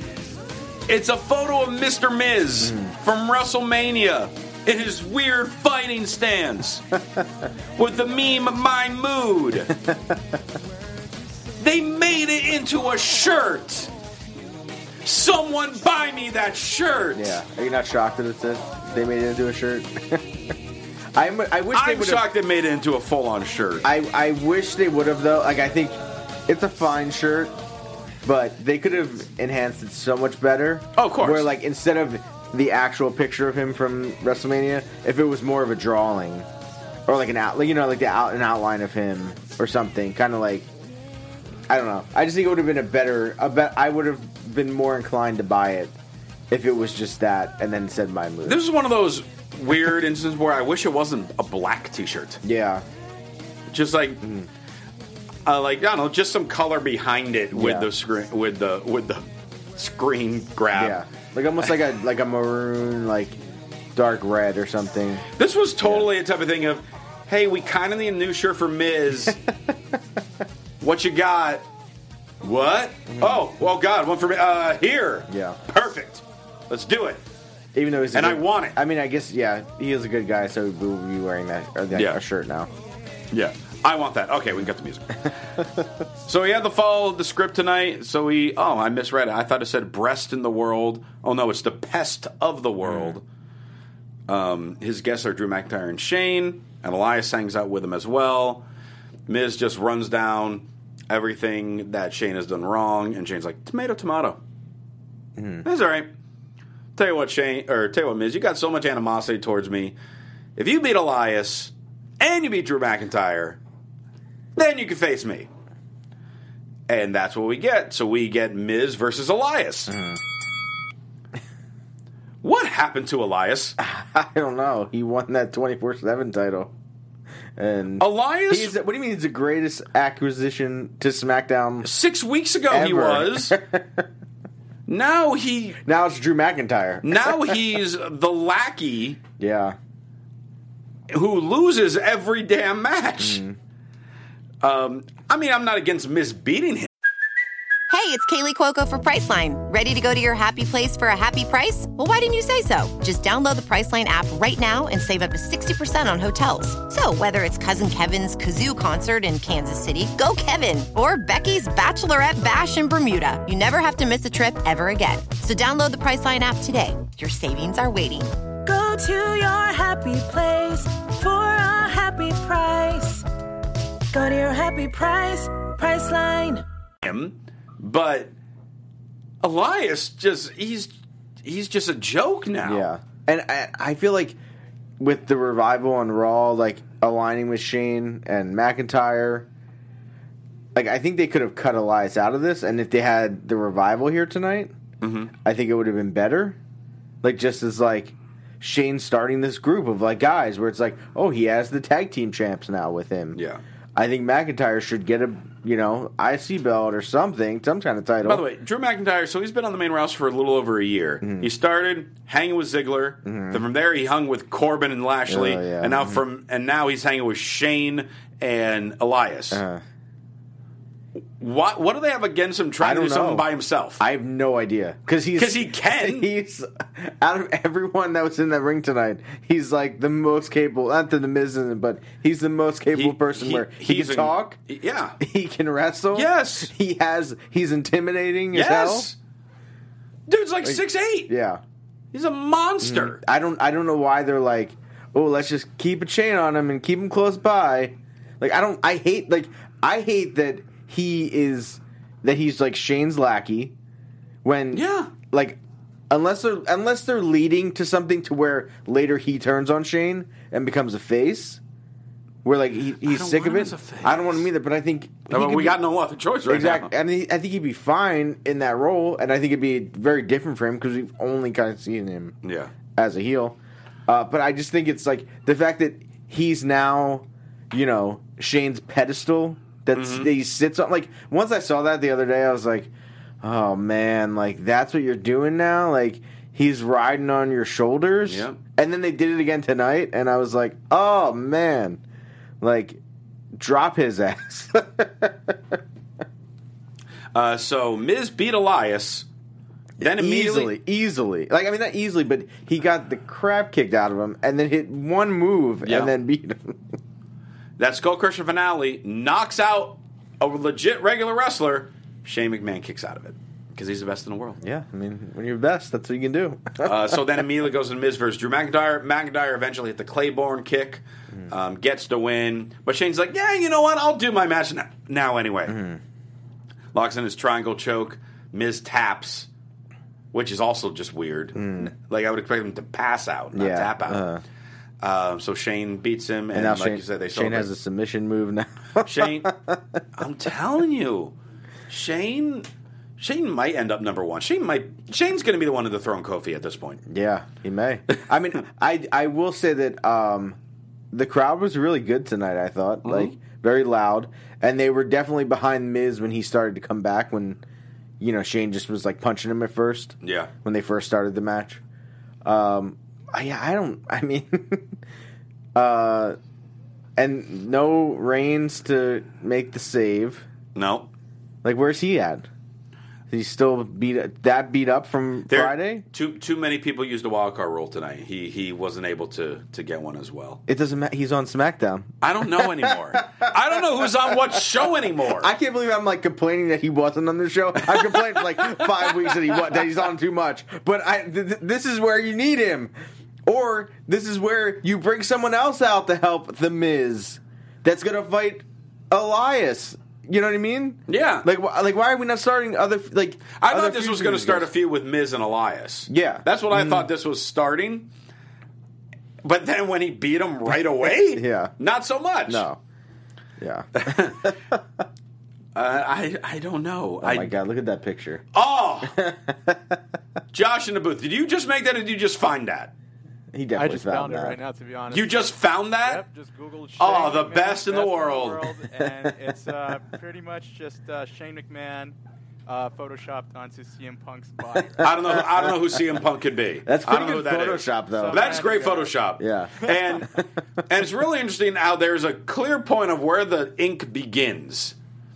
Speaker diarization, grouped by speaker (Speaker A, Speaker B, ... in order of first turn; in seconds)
Speaker A: 0.9-6.9, 7.8-9.7, 11.6-13.9, 15.0-17.4, 21.7-23.9, 30.9-31.5, 48.4-52.4, 53.7-54.2, 55.5-61.0, 65.3-69.4, 70.8-71.6, 72.4-77.2, 78.1-78.8, 81.9-82.2, 83.3-85.3, 86.2-93.2, 94.3-98.6, 99.3-104.4, 105.6-106.1, 107.0-110.0, 110.5-113.6, 114.5-115.5, 116.9-120.0, 122.4-123.8, 128.0-128.8, 131.8-133.6, 134.9-135.8, 137.0-139.2, 141.1-143.4, 144.6-146.9, 177.0-178.3, 179.4-182.9, 195.0-195.3, 203.3-203.6, 208.2-219.6, 221.4-224.0, 225.3-226.3, 232.9-235.2, 236.1-236.7, 238.5-239.2, 240.3-241.3, 242.1-243.2, 254.7-255.1, 263.0-264.5, 265.3-266.9, 272.4-272.7, 279.9-280.3, 288.2-288.6, 297.3-299.3, 300.0-300.7, 305.8-306.1, 307.8-314.6, 316.8-325.8, 326.9-329.5, 330.3-334.3, 335.0-337.7, 339.0-339.5, 340.1-341.3, 341.9-347.0, 353.0-353.3, 360.2-360.5, 370.7-371.1, 375.5-380.6, 382.2-385.5, 387.9-389.3, 401.1-401.5, 403.6-408.1, 409.4-412.7, 413.9-414.5, 415.7-417.5, 418.5-419.1, 420.5-422.9, 425.1-426.2, 427.0-428.7, 435.0-444.9
Speaker B: 2.6-2.9, 9.8-10.4, 17.1-20.4, 21.1-22.2, 23.8-27.5, 28.2-36.5, 37.1-40.7, 41.7-46.0, 46.5-48.6, 52.4-52.8, 57.5-57.9, 60.7-63.4, 63.9-65.2, 73.1-73.4, 75.3-75.6, 77.7-82.7, 105.4-105.6, 119.9-120.2, 123.8-126.7, 127.5-131.9, 132.7-134.0, 135.8-137.6, 139.4-139.8, 143.2-143.6, 182.6-184.4, 185.0-189.5, 190.7-194.7, 195.4-196.6, 197.2-203.4, 203.9-208.4, 211.2-211.5, 213.2-213.6, 215.3-216.2, 219.5-219.8, 222.8-223.5, 224.0-234.6, 235.2-239.1, 240.6-241.6, 242.8-253.7, 254.4-255.6, 256.1-261.6, 262.4-265.8, 266.5-272.4, 272.9-292.0, 292.6-293.0, 293.5-295.6, 300.0-306.9, 314.6-317.2, 325.7-326.0, 331.6-331.9, 333.5-334.4, 336.5-340.0, 347.1-350.6, 351.1-357.6, 358.2-361.8, 362.4-364.9, 365.7-366.4, 367.2-370.4, 371.6-372.5, 373.3-376.0, 380.7-384.6, 385.3-392.9, 393.4-404.7, 406.1-407.1, 411.3-411.7, 412.5-412.8, 413.6-414.8, 417.2-418.4, 419.1-420.0, 423.5-424.6, 436.8-438.5, 439.4-439.9
Speaker C: 147.9-168.3
Speaker D: 168.6-173.2, 174.1-176.6
Speaker E: 423.8-432.1, 432.7-435.4, 438.1-439.1